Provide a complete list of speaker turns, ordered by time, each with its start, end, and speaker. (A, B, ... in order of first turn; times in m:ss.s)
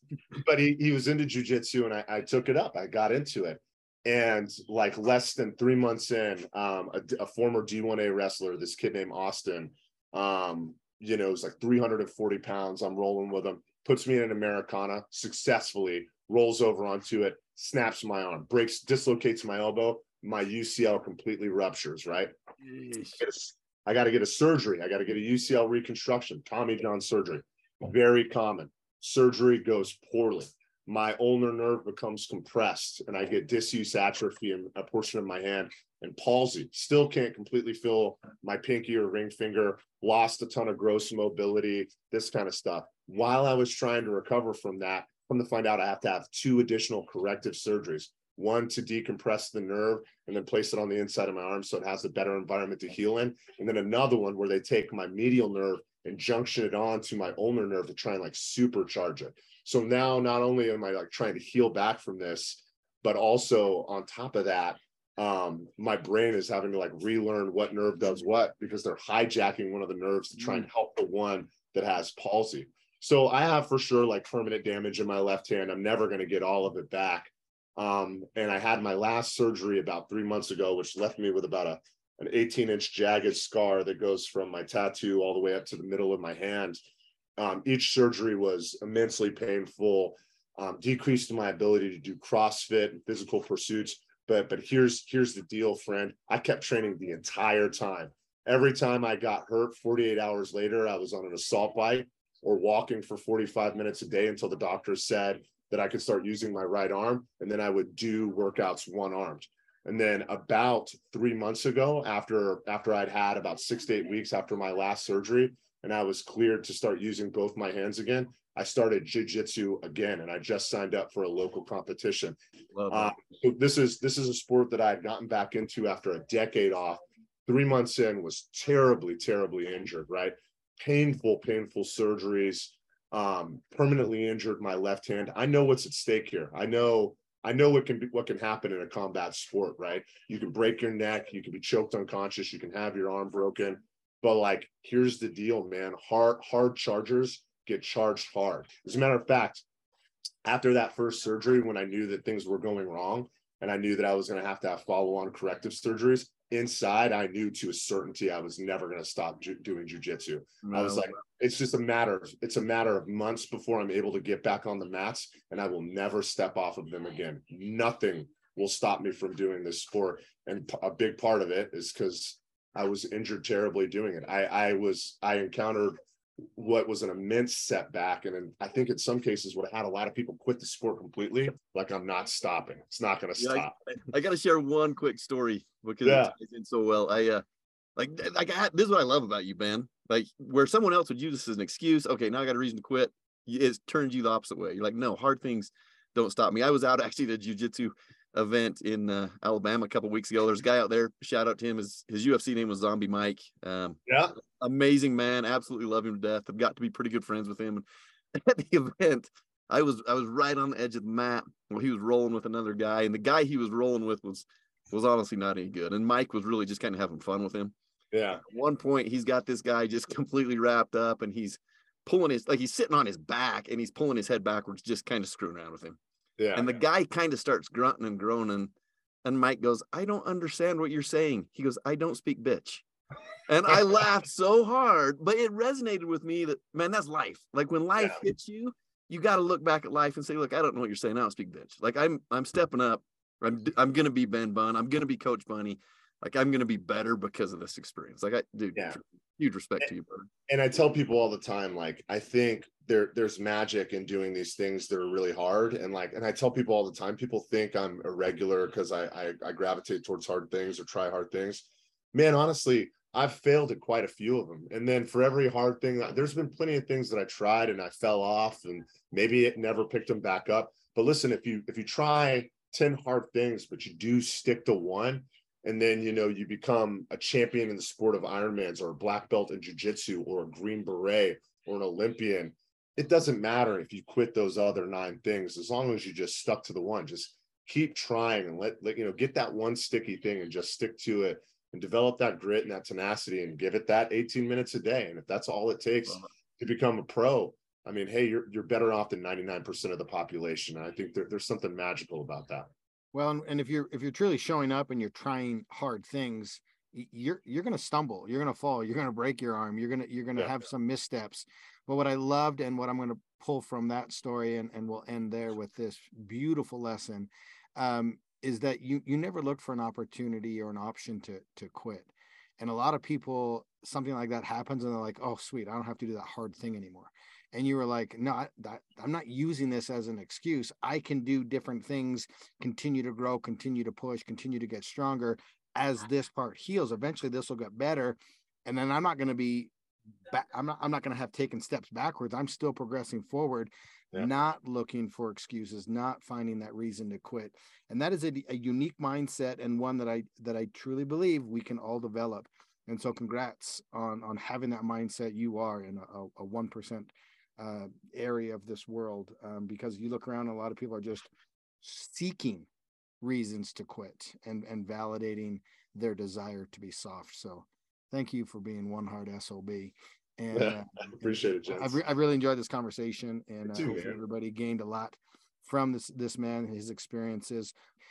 0:00.3-0:22.3 A
0:22.6-0:23.2 B
0:23.2-1:26.8 A
1:27.4-2:02.4 A
2:02.7-2:03.1 B
2:02.9-2:29.6 A
2:30.4-2:56.0 A
2:40.6-2:41.1 B
2:56.5-3:03.7 A
3:03.4-3:07.4 B
3:06.0-3:06.3 A
3:08.0-3:24.0 B
3:24.1-3:24.4 A
3:24.6-3:37.7 B
3:38.1-3:38.4 A
3:38.5-3:46.0 B
3:46.4-3:46.8 A
3:46.5-3:48.7 B
3:49.2-3:52.8 B
3:53.5-4:10.3 B
3:58.0-3:58.2 A
4:10.5-5:02.7 A
5:03.1-5:39.7 C
5:40.3-6:01.3 C
6:01.8-6:02.7 C
6:03.2-6:10.9 C
6:10.5-6:12.0 A
6:11.7-6:17.7 C
6:13.7-6:14.1 A